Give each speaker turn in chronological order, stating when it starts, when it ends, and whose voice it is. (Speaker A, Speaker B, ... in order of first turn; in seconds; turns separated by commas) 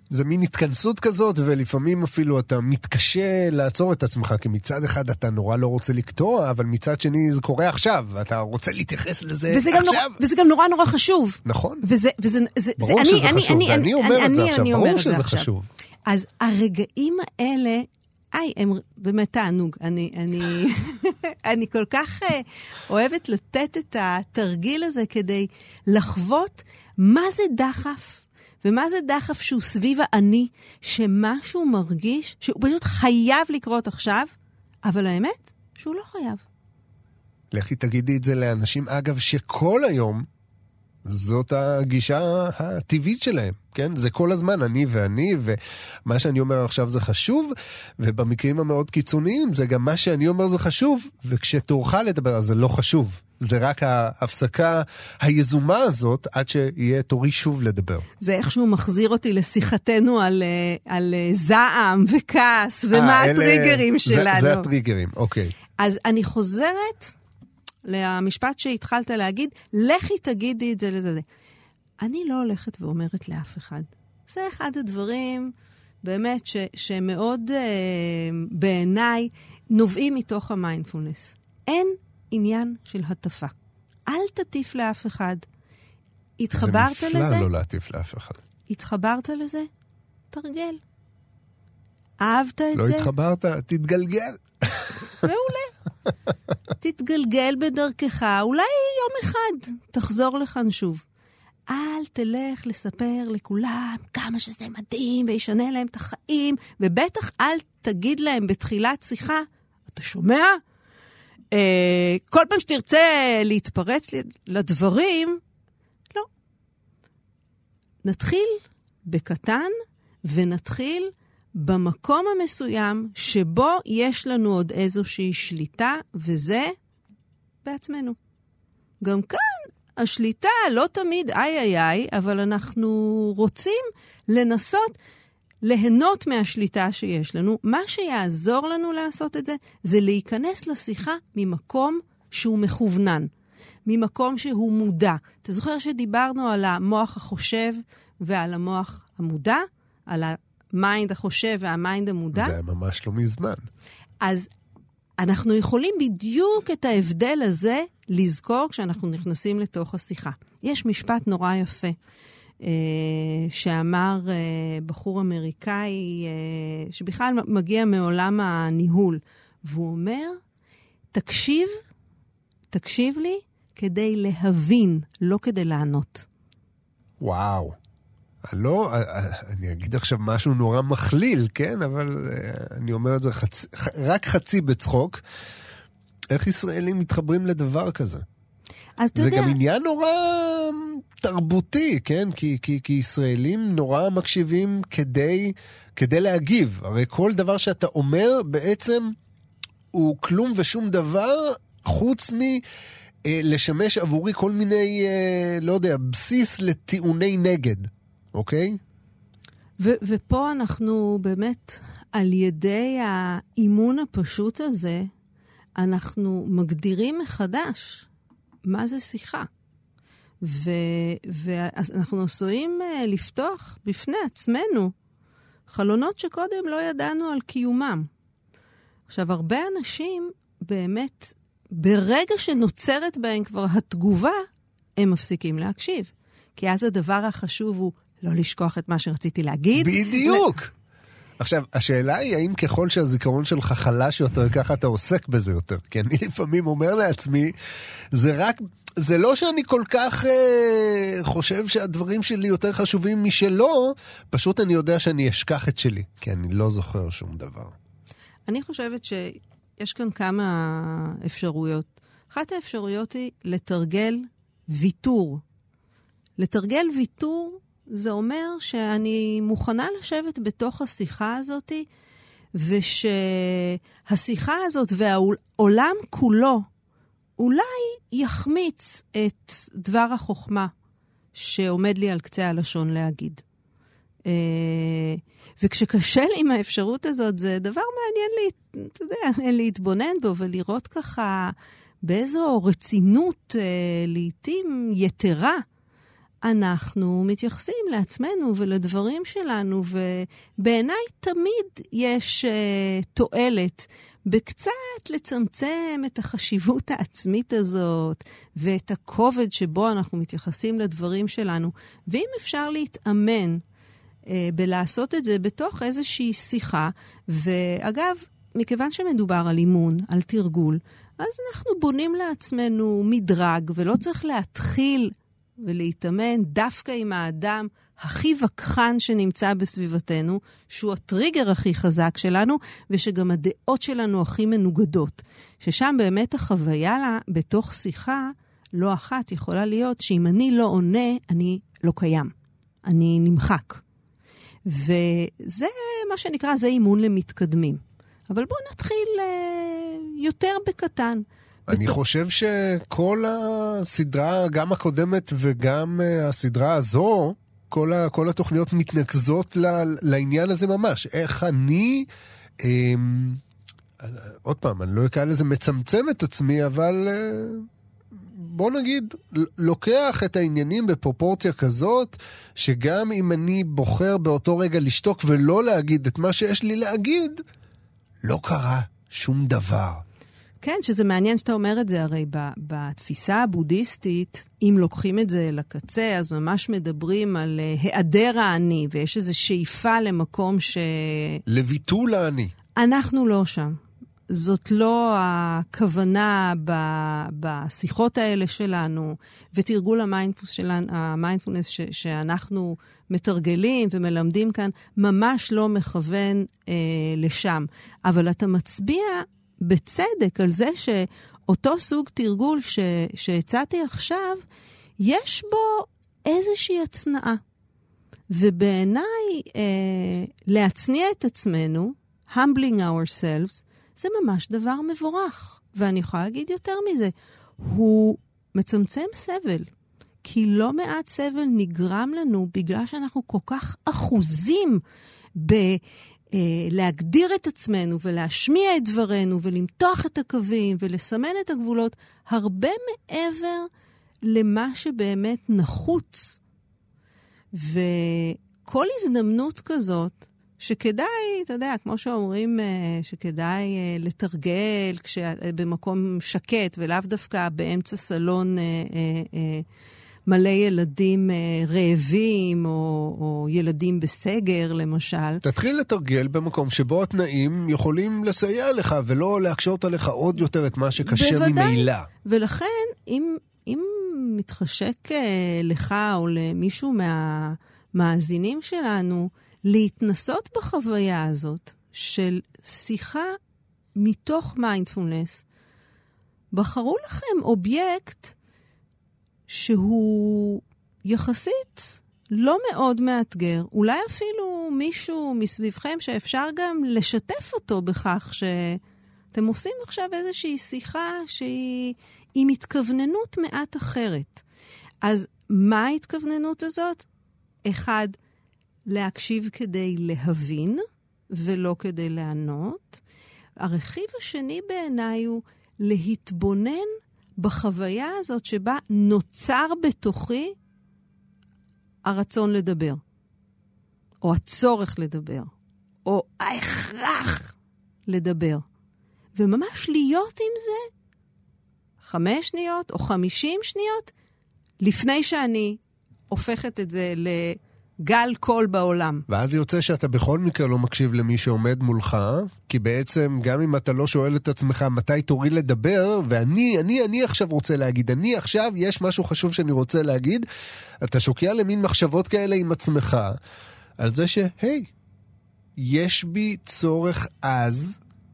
Speaker A: 0.1-10.2, Speaker B: 9.5-15.5, Speaker A: 11.4-11.8, Speaker A: 12.8-15.7, Speaker B: 16.1-34.3, Speaker B: 34.8-36.4, Speaker A: 37.5-40.3, Speaker A: 41.0-58.0, Speaker B: 58.2-64.7, Speaker A: 62.9-65.5, Speaker B: 65.8-67.1, Speaker B: 67.8-71.2, Speaker B: 72.0-83.5, Speaker B: 84.1-85.5, Speaker B: 86.4-87.5, Speaker A: 86.5-88.4, Speaker B: 88.7-89.7, Speaker B: 90.3-90.8, Speaker B: 92.2-93.1, Speaker A: 92.7-95.2, Speaker B: 95.2-95.7, Speaker B: 96.8-101.0, Speaker B: 101.7-110.6, Speaker B: 111.5-115.4, Speaker B: 118.0-126.7, Speaker B: 127.6-128.2, Speaker B: 129.0-135.0, Speaker B: 135.6-143.3, Speaker B: 143.8-152.6, Speaker A: 152.3-153.6, Speaker B: 154.2-154.5, Speaker B: 155.2-161.9, Speaker B: 162.6-170.4, Speaker B: 171.1-171.8, Speaker B: 172.7-176.3, Speaker A: 177.2-177.8, Speaker A: 178.4-185.2, Speaker A: 186.3-188.2, Speaker B: 189.0-189.6, Speaker A: 189.1-199.1, Speaker A: 199.9-202.6, Speaker A: 203.2-208.8, Speaker B: 209.8-215.1, Speaker B: 215.8-218.1, Speaker B: 218.7-219.5, Speaker B: 220.4-224.9, Speaker B: 225.7-228.1, Speaker B: 229.1-234.4, Speaker B: 235.0-240.4, Speaker A: 239.8-240.7, Speaker A: 241.4-247.5, Speaker A: 248.1-257.7, Speaker B: 258.5-265.4, Speaker B: 266.4-271.9, Speaker B: 272.6-276.6, Speaker B: 277.4-280.7, Speaker B: 281.3-283.4, Speaker B: 284.3-295.6, Speaker B: 296.4-313.6, Speaker B: 314.3-342.3, Speaker B: 342.8-343.8, Speaker B: 344.6-351.9, Speaker A: 351.7-362.1, Speaker A: 362.6-363.4, Speaker A: 364.0-367.7, Speaker A: 368.3-377.4, Speaker A: 378.2-380.0, Speaker B: 380.6-391.4, Speaker A: 391.5-392.5, Speaker B: 392.8-393.8, Speaker B: 394.3-414.4, Speaker B: 415.0-417.4, Speaker B: 418.3-429.7, Speaker B: 430.2-434.8, Speaker B: 435.4-435.8, Speaker B: 436.3-443.7, Speaker B: 444.2-446.4, Speaker B: 447.5-459.6, Speaker B: 460.3-465.4, Speaker A: 465.4-472.1, Speaker B: 471.1-483.4, Speaker B: 483.9-485.4, Speaker B: 486.5-488.3, Speaker B: 489.5-498.8, Speaker B: 499.3-504.4, Speaker B: 505.0-507.1, Speaker B: 507.6-508.1, Speaker B: 508.9-513.0, Speaker B: 513.6-520.5, Speaker B: 522.0-523.0, Speaker B: 524.2-525.5, Speaker B: 526.0-527.5, Speaker B: 528.1-528.6, Speaker B: 529.3-530.9, Speaker B: 532.0-534.1, Speaker B: 534.8-535.8, Speaker B: 536.3-539.2, Speaker A: 539.3-550.4, Speaker A: 551.0-553.4, Speaker A: 554.0-554.9, Speaker A: 555.8-558.0